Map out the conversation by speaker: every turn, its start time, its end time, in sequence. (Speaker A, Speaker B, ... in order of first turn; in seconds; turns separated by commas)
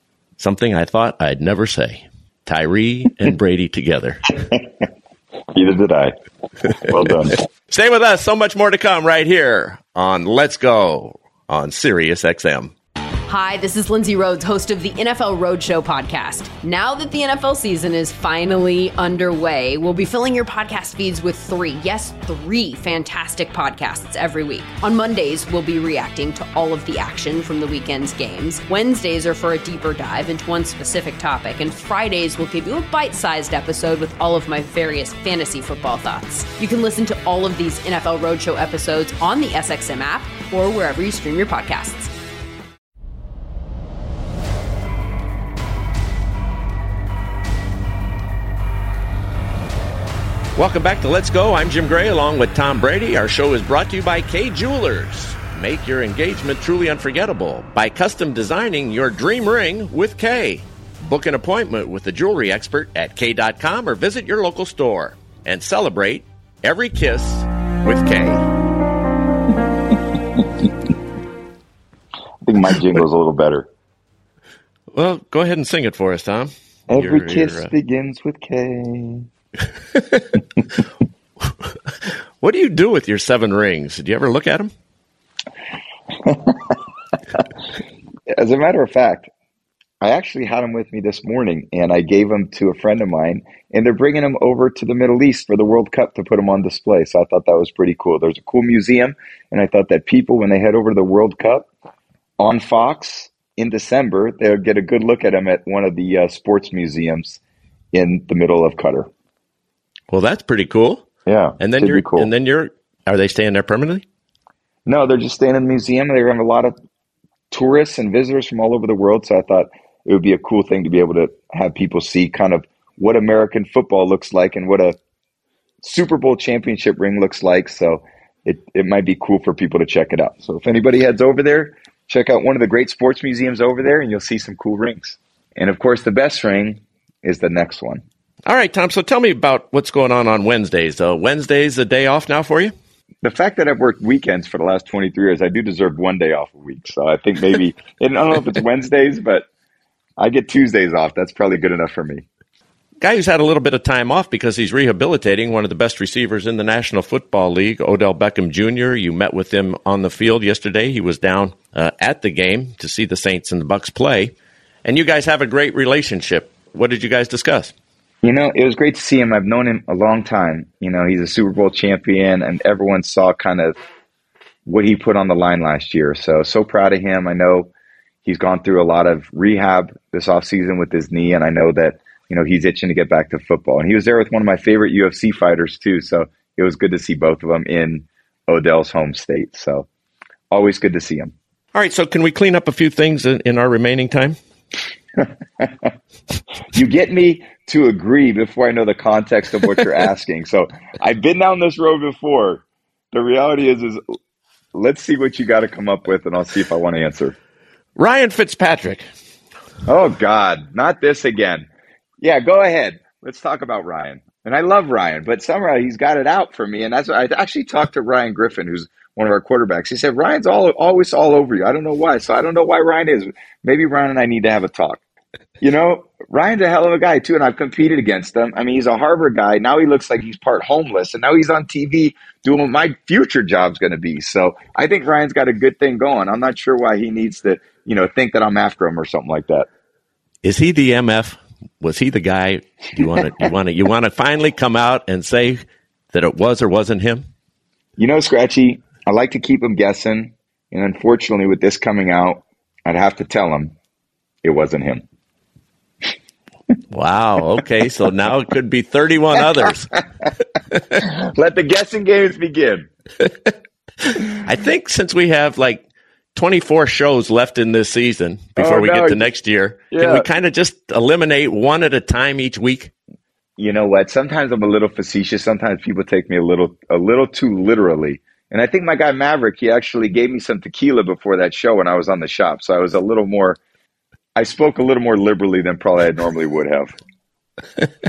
Speaker A: 0.4-4.4, Speaker B: 5.5-6.1, Speaker B: 6.8-7.4, Speaker A: 7.7-12.7, Speaker C: 13.3-42.1, Speaker A: 50.5-68.5, Speaker B: 72.4-73.7, Speaker A: 74.9-77.7, Speaker B: 76.9-79.3, Speaker A: 80.0-80.3, Speaker A: 82.4-84.7, Speaker B: 86.1-86.8, Speaker B: 88.3-89.3, Speaker B: 90.0-101.7, Speaker B: 102.4-107.4, Speaker B: 107.9-109.1, Speaker A: 110.1-111.1, Speaker B: 111.3-112.3, Speaker A: 111.6-114.0, Speaker B: 114.9-116.7, Speaker B: 117.5-125.0, Speaker B: 125.8-138.0, Speaker A: 138.5-142.7, Speaker B: 143.2-149.5, Speaker B: 150.2-152.2, Speaker A: 153.0-164.3, Speaker A: 164.8-167.7, Speaker B: 168.2-173.8, Speaker B: 174.7-177.7, Speaker B: 178.2-189.9, Speaker B: 190.5-191.3, Speaker A: 191.7-194.4, Speaker B: 195.2-195.9, Speaker B: 196.7-204.0, Speaker B: 204.7-207.3, Speaker A: 208.0-209.1, Speaker B: 209.9-211.7, Speaker B: 212.2-225.0, Speaker B: 225.6-239.7, Speaker A: 240.4-247.3, Speaker B: 248.0-253.7, Speaker B: 254.4-255.0, Speaker A: 256.9-259.9, Speaker B: 260.9-262.9, Speaker A: 264.0-265.8, Speaker A: 266.4-272.9, Speaker B: 268.6-269.3, Speaker B: 269.9-270.3, Speaker B: 273.6-283.6, Speaker B: 284.4-286.9